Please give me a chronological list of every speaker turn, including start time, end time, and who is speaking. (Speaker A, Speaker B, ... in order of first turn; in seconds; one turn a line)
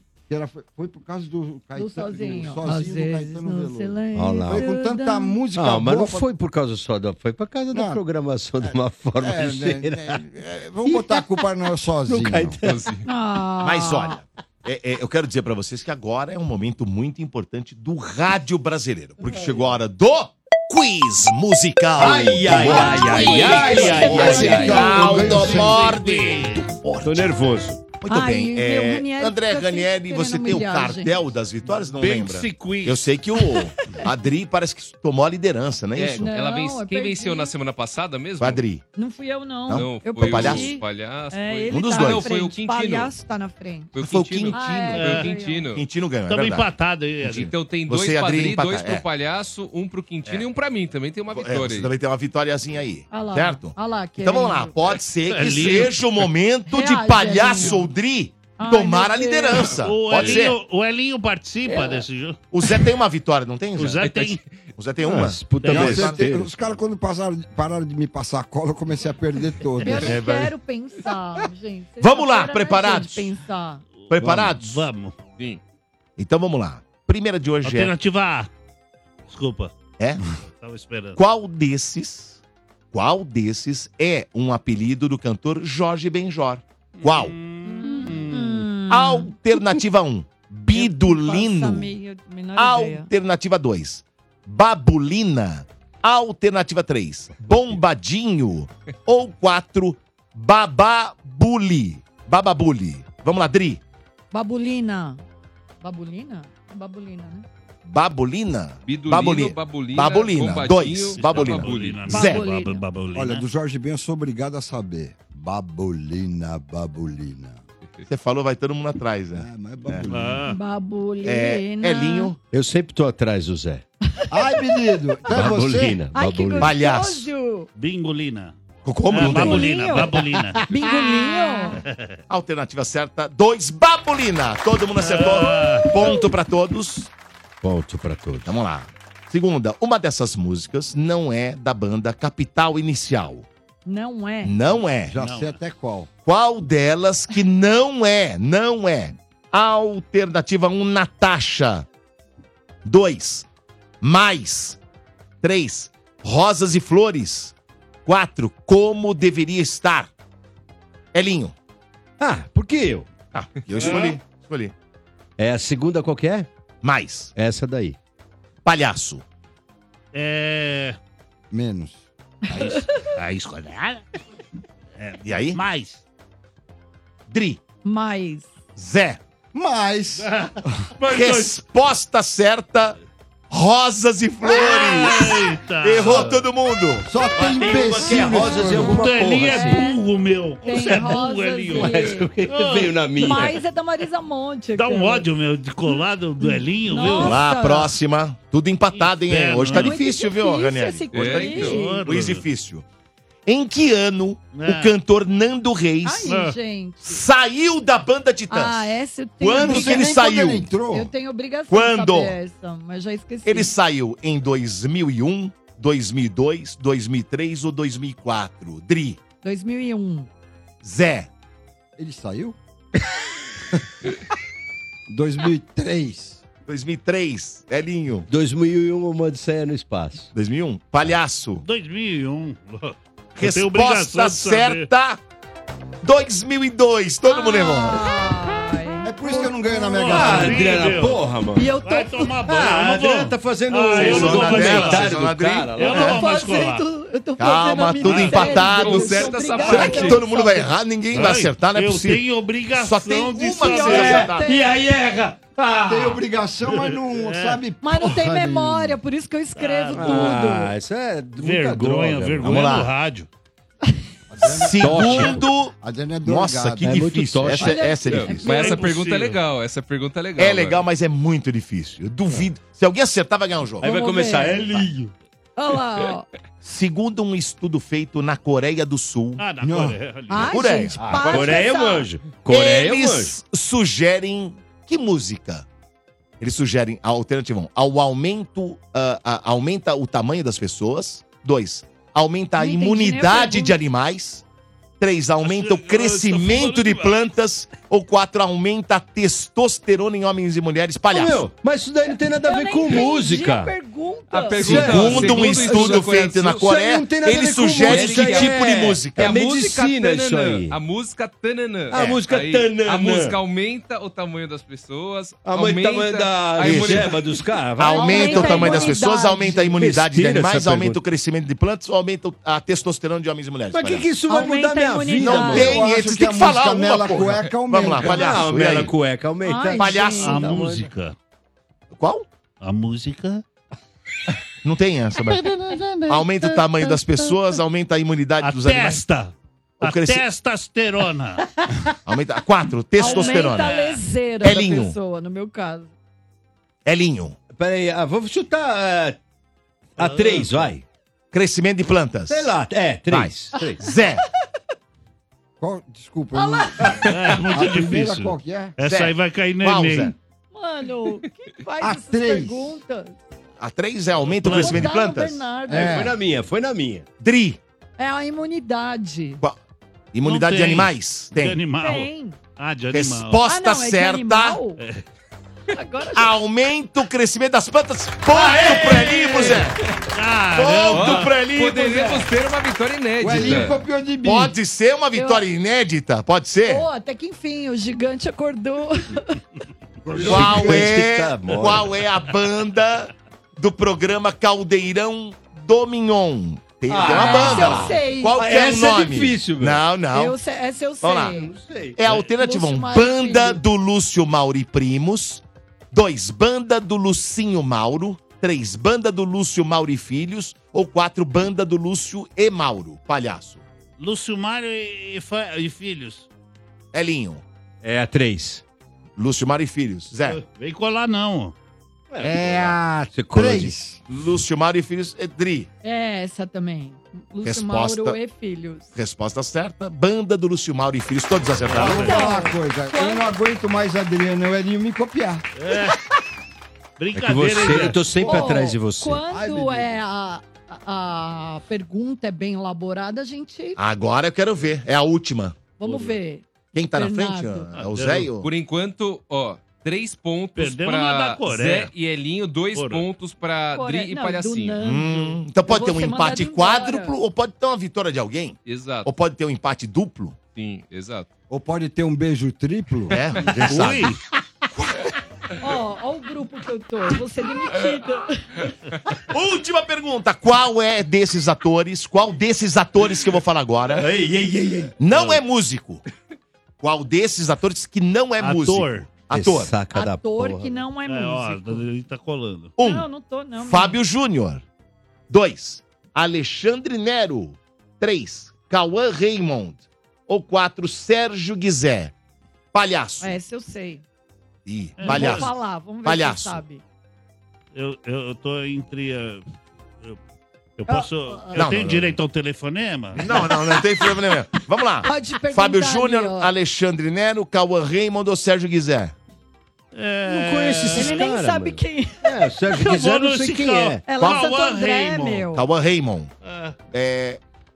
Speaker A: 0.3-6.3
Speaker B: 1.8-5.4
Speaker C: 4.2-4.7
Speaker C: 5.5-10.2
Speaker A: 7.7-8.0
Speaker A: 9.2-12.6
Speaker C: 12.1-12.9
Speaker D: 12.6-13.0
Speaker B: 13.1-14.2
Speaker E: 13.6-27.3
Speaker C: 22.0-25.5
Speaker B: 22.7-24.9
Speaker A: 23.4-25.9
Speaker F: 24.8-26.7
Speaker C: 27.0-27.8
Speaker E: 28.0-36.3
Speaker B: 28.1-31.1
Speaker F: 31.7-33.0
Speaker D: 36.0-38.6
Speaker B: 36.2-37.5
Speaker E: 38.4-38.8
Speaker B: 39.0-44.0
Speaker E: 39.7-40.7
Speaker D: 39.7-43.1
Speaker E: 41.7-42.3
Speaker D: 44.0-45.8
Speaker E: 44.0-45.1
Speaker B: 44.5-45.7
Speaker F: 45.0-45.3
Speaker E: 45.7-46.7
Speaker F: 46.3-47.5
Speaker E: 47.2-49.0
Speaker D: 47.4-51.9
Speaker E: 51.3-60.6
Speaker B: 53.1-54.7
Speaker F: 55.2-56.0
Speaker B: 56.7-57.9
Speaker B: 58.6-59.8
Speaker F: 59.8-62.4
Speaker B: 61.7-62.0
Speaker E: 62.5-66.2
Speaker F: 63.8-64.4
Speaker C: 65.0-66.5
Speaker F: 65.6-65.9
Speaker A: 65.7-70.2
Speaker B: 69.8-73.8
Speaker E: 72.0-73.3
Speaker F: 74.0-75.2
Speaker E: 74.1-74.9
Speaker E: 76.2-77.9
Speaker F: 77.6-78.5
Speaker F: 79.3-79.7
Speaker F: 80.2-81.2
Speaker E: 81.2-82.4
Speaker E: 82.9-87.3
Speaker F: 87.0-88.7
Speaker B: 87.6-89.3
Speaker E: 88.9-91.9
Speaker B: 90.7-93.1
Speaker E: 92.6-103.8
Speaker B: 104.3-105.2
Speaker B: 105.8-107.5
Speaker E: 107.8-112.4
Speaker D: 108.9-112.2
Speaker F: 111.2-113.4
Speaker B: 112.1-112.8
Speaker A: 113.2-117.6
Speaker E: 118.1-120.1
Speaker A: 119.3-120.5
Speaker F: 120.1-120.6
Speaker B: 120.5-122.3
Speaker E: 121.2-122.4
Speaker C: 122.5-123.8
Speaker A: 124.3-126.0
Speaker C: 125.3-126.8
Speaker B: 126.1-127.7
Speaker E: 126.6-127.3
Speaker F: 127.8-128.5
Speaker E: 128.8-130.1
Speaker F: 129.1-132.2
Speaker B: 129.2-130.1
Speaker B: 130.7-131.8
Speaker E: 132.3-137.1
Speaker F: 135.0-136.2
Speaker C: 137.6-138.5
Speaker E: 138.4-143.5
Speaker B: 143.9-144.6
Speaker E: 144.4-145.2
Speaker A: 145.1-146.1
Speaker F: 145.2-145.6
Speaker E: 146.2-151.9
Speaker E: 152.8-153.5
Speaker E: 154.0-154.8
Speaker E: 155.4-157.5
Speaker E: 158.1-160.1
Speaker E: 161.1-161.6
Speaker C: 162.2-163.1
Speaker E: 163.3-164.7
Speaker F: 163.8-164.2
Speaker C: 165.4-166.5
Speaker E: 166.8-167.3
Speaker C: 167.3-168.0
Speaker E: 168.7-169.2
Speaker F: 170.1-171.0
Speaker A: 171.5-172.1
Speaker F: 172.5-174.0
Speaker F: 175.0-176.0
Speaker E: 175.2-175.6
Speaker E: 177.3-177.6
Speaker B: 177.8-178.5
Speaker E: 178.8-179.2
Speaker A: 179.5-180.9
Speaker F: 180.2-181.6
Speaker E: 181.1-183.0
Speaker E: 183.5-187.1
Speaker F: 184.5-186.5
Speaker A: 187.1-189.1
Speaker C: 187.4-189.9
Speaker F: 188.8-193.0
Speaker B: 189.3-190.0
Speaker B: 190.6-192.3
Speaker C: 191.7-193.6
Speaker B: 193.2-195.3
Speaker F: 194.8-197.4
Speaker B: 195.9-197.9
Speaker E: 197.1-202.8
Speaker F: 198.9-200.0
Speaker B: 199.7-202.1
Speaker D: 201.1-201.8
Speaker F: 201.6-202.4
Speaker E: 203.5-206.3
Speaker F: 204.5-204.9
Speaker B: 206.0-207.2
Speaker F: 206.3-206.6
Speaker E: 207.0-210.7
Speaker B: 208.5-210.2
Speaker A: 209.5-211.1
Speaker B: 210.9-213.7
Speaker E: 211.7-212.3
Speaker E: 213.4-219.2
Speaker B: 219.4-220.3
Speaker E: 220.8-221.3
Speaker A: 222.0-222.6
Speaker A: 225.1-226.4
Speaker E: 226.7-228.3
Speaker C: 228.3-230.3
Speaker E: 230.3-231.7
Speaker F: 231.6-234.9
Speaker E: 233.4-235.2
Speaker E: 236.0-238.1
Speaker B: 237.3-240.4
Speaker A: 239.0-240.8
Speaker F: 239.9-241.2
Speaker C: 240.1-241.8
Speaker B: 241.6-242.3
Speaker F: 241.8-245.2
Speaker C: 242.4-246.2
Speaker E: 243.9-246.2
Speaker F: 245.8-246.8
Speaker B: 245.9-250.7
Speaker E: 247.4-252.2
Speaker F: 248.0-248.8
Speaker D: 248.6-250.2
Speaker F: 251.1-255.4
Speaker E: 252.8-254.5
Speaker B: 253.6-254.7
Speaker C: 254.5-256.0
Speaker A: 255.9-259.0
Speaker F: 256.7-257.6
Speaker B: 257.8-260.7
Speaker F: 259.6-260.5
Speaker C: 259.9-262.7
Speaker F: 261.4-263.3
Speaker E: 262.4-262.9
Speaker A: 264.3-267.1
Speaker E: 264.5-268.5
Speaker C: 264.8-265.4
Speaker C: 266.8-268.0
Speaker B: 267.6-268.9
Speaker D: 268.1-270.9
Speaker F: 268.4-269.4
Speaker E: 270.4-273.9
Speaker B: 273.8-274.8
Speaker C: 273.8-275.1
Speaker B: 275.6-276.3
Speaker E: 276.6-279.4
Speaker F: 279.4-280.8
Speaker A: 279.6-280.0
Speaker B: 280.3-282.1
Speaker E: 280.4-281.5
Speaker C: 281.0-283.4
Speaker E: 282.5-285.7
Speaker E: 286.4-294.4
Speaker B: 292.6-293.8
Speaker E: 295.0-301.5
Speaker F: 295.4-297.2
Speaker C: 301.1-303.7
Speaker B: 302.3-305.2
Speaker D: 304.3-306.7
Speaker C: 304.6-306.1
Speaker E: 304.6-309.4
Speaker C: 306.6-310.8
Speaker D: 307.8-308.6
Speaker D: 309.2-317.2
Speaker C: 311.9-313.4
Speaker C: 315.4-318.9
Speaker E: 316.6-317.1
Speaker E: 317.8-324.1
Speaker B: 317.9-319.6
Speaker C: 319.7-321.0
Speaker C: 323.7-325.8
Speaker B: 324.3-325.7
Speaker E: 325.2-328.9
Speaker A: 325.4-328.4
Speaker C: 328.0-330.9
Speaker B: 329.4-330.5
Speaker E: 329.8-330.4
Speaker F: 330.2-331.1
Speaker E: 331.9-332.3
Speaker F: 332.6-333.4
Speaker E: 334.6-335.5
Speaker F: 335.5-336.7
Speaker E: 336.1-339.0
Speaker F: 338.4-341.5
Speaker E: 339.8-340.2
Speaker E: 342.1-343.8
Speaker B: 343.0-345.9
Speaker F: 343.0-344.0
Speaker E: 344.4-344.9
Speaker E: 346.9-347.4
Speaker C: 347.6-349.2
Speaker C: 350.0-350.8
Speaker F: 350.0-350.7
Speaker E: 351.3-352.6
Speaker C: 352.3-353.8
Speaker E: 353.1-354.2
Speaker A: 355.6-358.8
Speaker B: 356.3-357.0
Speaker F: 357.1-360.1
Speaker E: 358.9-360.1
Speaker B: 360.5-363.2
Speaker A: 361.8-362.8
Speaker E: 363.6-365.5
Speaker F: 364.3-364.8
Speaker B: 364.5-366.1
Speaker A: 365.7-366.1
Speaker C: 365.7-367.1
Speaker E: 367.2-367.6
Speaker B: 368.0-369.4
Speaker E: 370.1-371.6
Speaker F: 370.2-373.4
Speaker B: 371.8-372.4
Speaker E: 372.9-374.6
Speaker B: 373.4-374.8
Speaker F: 374.8-375.0
Speaker B: 375.7-376.3
Speaker E: 376.1-379.8
Speaker F: 378.4-381.4
Speaker E: 380.6-382.2
Speaker D: 380.9-383.8
Speaker A: 383.2-384.5
Speaker E: 384.2-386.9
Speaker B: 385.1-385.4
Speaker B: 386.6-389.4
Speaker A: 390.1-391.0
Speaker C: 390.1-391.9
Speaker E: 390.2-400.4
Speaker C: 396.9-399.8
Speaker B: 397.1-398.4
Speaker B: 400.1-401.5
Speaker E: 401.0-401.4
Speaker C: 401.4-402.0
Speaker E: 402.0-413.6
Speaker B: 402.4-403.6
Speaker F: 414.0-416.3
Speaker E: 416.9-417.4
Speaker C: 417.8-418.6
Speaker E: 419.2-420.4
Speaker F: 420.2-421.5
Speaker C: 422.1-423.8
Speaker A: 422.2-424.0
Speaker E: 424.1-425.7
Speaker B: 425.8-428.9
Speaker E: 427.4-428.2
Speaker E: 428.9-432.2
Speaker A: 431.7-435.4
Speaker F: 431.8-432.2
Speaker B: 431.8-433.3
Speaker F: 435.6-436.0
Speaker F: 437.0-438.4
Speaker C: 437.1-439.2
Speaker B: 438.2-443.8
Speaker A: 439.3-440.0
Speaker E: 443.8-445.6
Speaker B: 445.8-447.7
Speaker F: 445.8-446.1
Speaker E: 446.7-448.5
Speaker F: 447.7-448.3
Speaker D: 448.4-454.9
Speaker F: 450.6-451.9
Speaker F: 452.7-453.1
Speaker B: 453.7-457.1
Speaker E: 454.8-460.4
Speaker D: 458.7-459.1
Speaker D: 460.6-461.3
Speaker A: 461.5-463.2
Speaker E: 463.1-464.0
Speaker C: 463.4-464.1
Speaker F: 463.7-464.2
Speaker B: 465.6-468.5
Speaker E: 469.3-474.1
Speaker C: 473.9-475.4
Speaker E: 475.0-476.0
Speaker E: 476.8-479.7
Speaker F: 478.4-479.1
Speaker C: 479.3-480.8
Speaker B: 479.9-481.9
Speaker F: 481.1-482.8
Speaker E: 482.8-483.1
Speaker B: 482.8-484.0
Speaker E: 483.6-484.6
Speaker E: 485.3-492.1
Speaker E: 492.7-493.4
Speaker B: 493.2-494.0
Speaker E: 494.7-495.5
Speaker F: 495.0-495.5
Speaker B: 495.0-496.8
Speaker E: 496.1-496.6
Speaker F: 497.7-499.4
Speaker F: 500.8-503.4
Speaker B: 500.9-501.7
Speaker E: 501.5-502.2
Speaker E: 503.2-509.1
Speaker B: 505.0-506.5
Speaker F: 509.9-511.3
Speaker C: 510.3-514.1
Speaker B: 510.9-512.9
Speaker F: 512.8-515.5
Speaker B: 514.0-515.6
Speaker E: 515.5-516.3
Speaker F: 516.4-516.8
Speaker E: 516.9-517.4